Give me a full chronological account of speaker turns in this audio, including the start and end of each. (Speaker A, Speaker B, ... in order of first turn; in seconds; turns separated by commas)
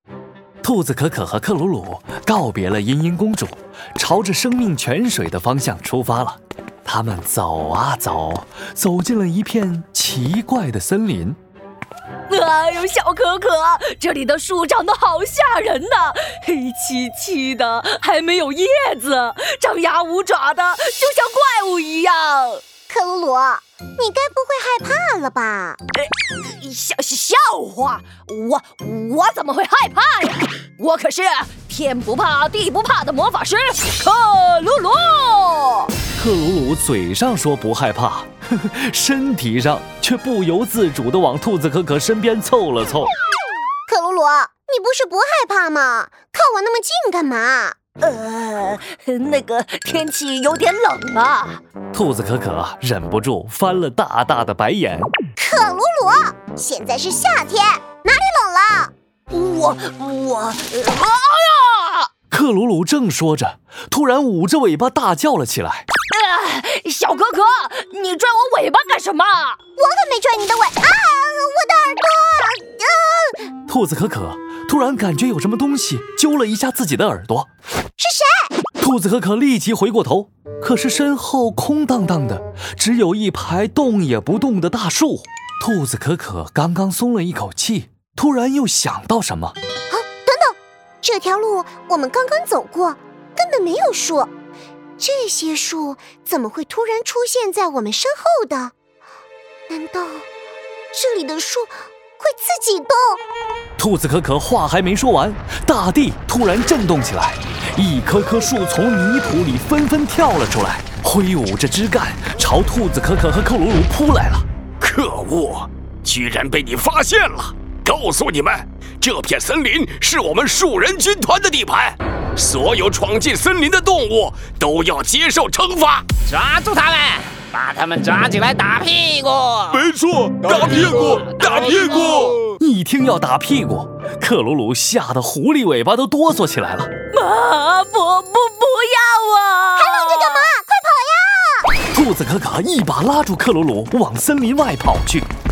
Speaker A: 0.6-11.4, Speaker B: 12.3-22.6, Speaker C: 22.9-25.8, Speaker B: 26.2-35.9, Speaker A: 36.1-43.1, Speaker C: 43.9-47.8, Speaker B: 48.0-51.6, Speaker A: 51.9-55.1, Speaker C: 55.4-58.9, Speaker B: 59.3-62.1, Speaker A: 62.3-65.9, Speaker B: 66.1-69.6, Speaker C: 69.8-73.4, Speaker A: 73.7-77.5, Speaker C: 78.0-78.5, Speaker A: 78.8-89.5, Speaker C: 89.9-94.3, Speaker C: 95.0-98.7, Speaker C: 99.7-100.2, Speaker C: 100.9-103.2, Speaker A: 103.8-114.4, Speaker D: 114.8-126.2, Speaker E: 126.3-129.7, Speaker D: 129.7-132.4, Speaker A: 132.4-136.9, Speaker B: 137.1-140.5, Speaker C: 139.8-141.7, Speaker A: 141.9-145.3